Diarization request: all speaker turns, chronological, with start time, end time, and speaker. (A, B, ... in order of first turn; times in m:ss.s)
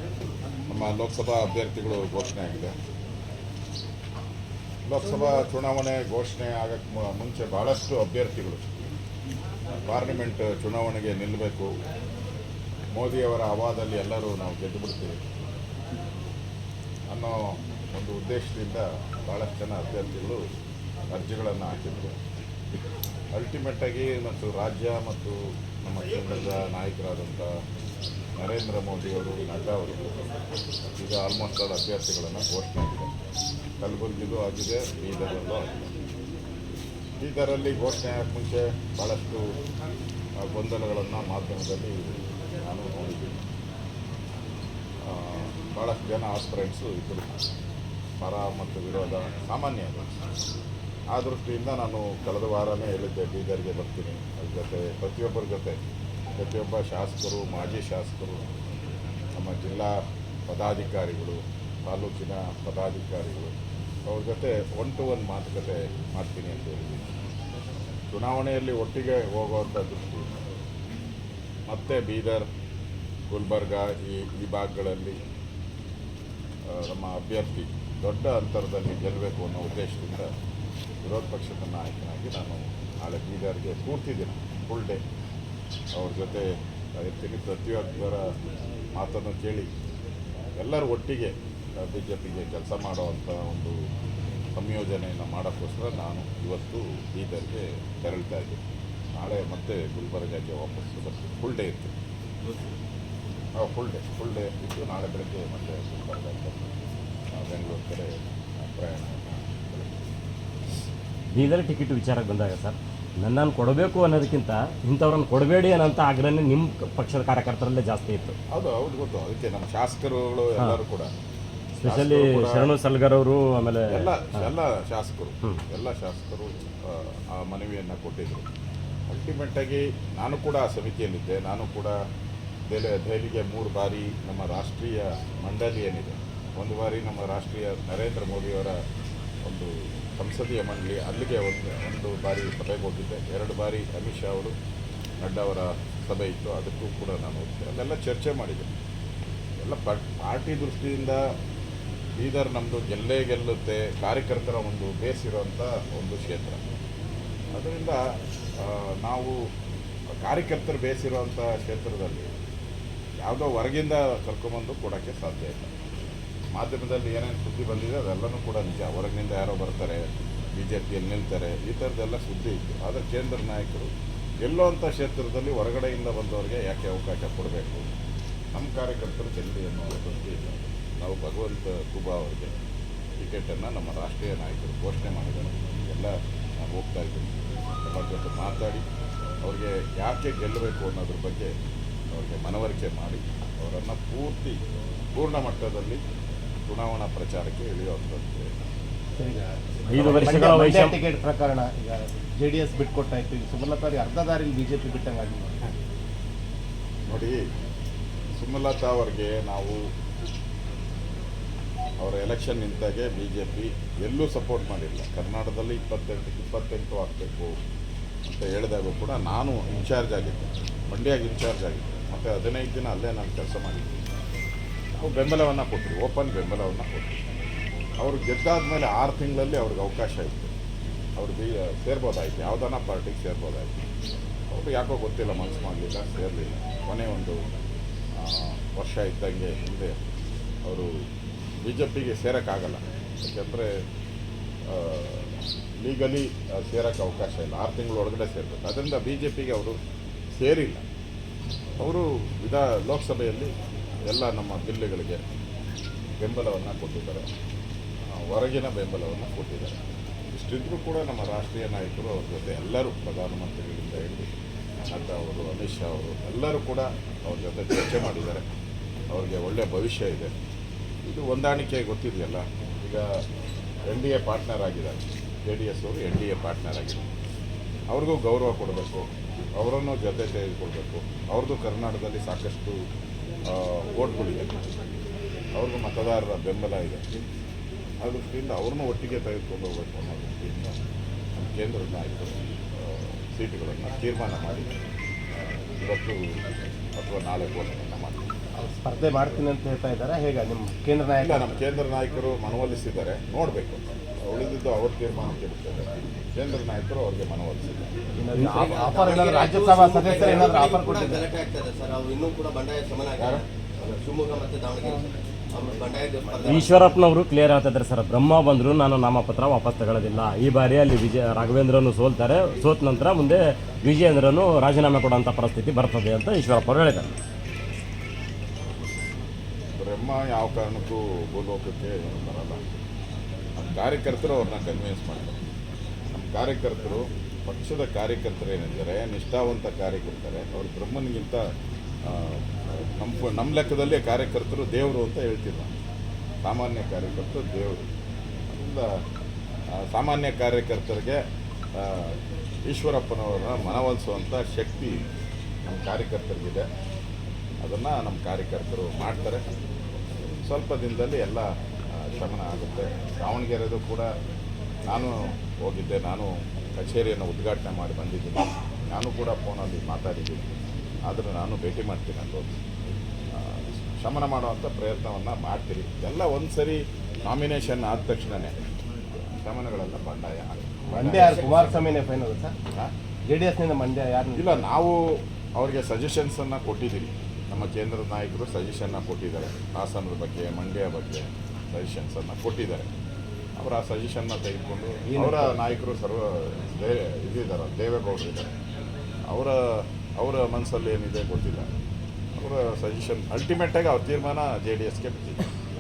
0:00.7-0:02.7 A
0:04.8-0:08.6 A
0:09.8-0:11.7 A
0:12.9-0:15.2 A
0:17.1-0:20.4 A
0:21.1-0:22.2 A
0:23.3-0:27.6 A
0:28.4-0:30.2 A
0:31.0-0:33.1 A
0:33.8-0:35.8 A
0:37.2-0:39.6 A
0:40.4-0:43.4 A
0:45.0-0:47.4 A
0:48.2-0:50.1 A
0:51.1-0:55.8 A
0:56.4-0:58.5 A
0:59.3-1:03.5 A
1:04.1-1:07.1 A
1:08.1-1:10.3 A
1:11.7-1:12.5 A
1:13.3-1:15.2 A
1:16.7-1:20.3 A
1:21.0-1:25.0 A
1:25.9-1:28.4 A
1:29.0-1:29.7 A
1:30.6-1:33.8 A
1:34.6-1:38.6 A
1:39.2-1:41.9 A
1:43.6-1:46.7 A
1:47.3-1:50.1 A
1:51.3-1:58.4 B
1:58.5-2:01.1 A
2:01.8-2:04.5 B
2:01.8-2:02.7 A
2:03.9-2:08.5 A
2:09.1-2:12.0 A
2:12.7-2:18.8 A
2:19.4-2:24.6 A
2:25.2-2:28.7 A
2:29.6-2:31.2 A
2:32.2-2:36.6 A
2:37.6-2:38.0 A
2:38.6-2:39.4 A
2:40.2-2:42.3 A
2:43.2-2:45.7 A
2:46.6-2:53.9 A
2:54.4-2:57.9 A
2:58.5-3:02.5 A
3:03.2-3:08.8 A
3:09.4-3:11.5 A
3:12.1-3:14.6 A
3:15.1-3:16.0 A
3:16.7-3:18.5 A
3:19.2-3:25.6 C
3:19.9-3:21.0 B
3:27.1-3:27.5 A
3:28.4-3:29.8 A
3:32.0-3:37.6 A
3:38.2-3:44.0 A
3:45.0-3:47.2 A
3:48.0-3:50.5 A
3:51.2-3:53.8 A
3:54.5-3:57.4 A
3:58.2-4:00.0 A
4:00.6-4:00.9 A
4:01.6-4:03.8 A
4:04.7-4:09.8 A
4:10.4-4:10.8 A
4:11.8-4:13.5 A
4:14.1-4:15.2 A
4:16.2-4:17.3 A
4:18.2-4:19.8 A
4:20.3-4:24.3 A
4:24.9-4:28.4 A
4:29.1-4:30.3 A
4:31.0-4:33.2 A
4:33.9-4:37.1 A
4:37.9-4:42.8 A
4:43.5-4:44.5 A
4:45.6-4:47.0 A
4:48.0-4:50.8 A
4:51.4-4:54.7 A
4:55.4-4:56.4 A
4:57.0-4:58.4 A
4:58.6-5:01.5 C
5:01.2-5:07.9 A
5:08.2-5:11.2 C
5:08.4-5:16.9 D
5:16.4-5:27.1 B
5:29.8-5:32.6 A
5:33.6-5:35.4 A
5:36.1-5:41.5 A
5:42.0-5:45.7 A
5:46.4-5:47.9 A
5:48.5-5:48.9 A
5:49.8-5:51.2 A
5:51.8-5:55.0 A
5:55.7-5:56.7 A
5:57.6-5:59.4 A
6:00.4-6:04.1 A
6:04.9-6:10.5 A
6:11.1-6:12.5 A
6:13.4-6:18.6 A
6:19.2-6:21.8 A
6:20.9-6:22.6 C
6:21.1-6:21.8 D
6:23.3-6:24.6 C
6:24.4-6:32.9 A
6:33.6-6:38.5 A
6:35.1-6:35.6 C
6:39.3-6:41.7 A
6:42.4-6:45.4 A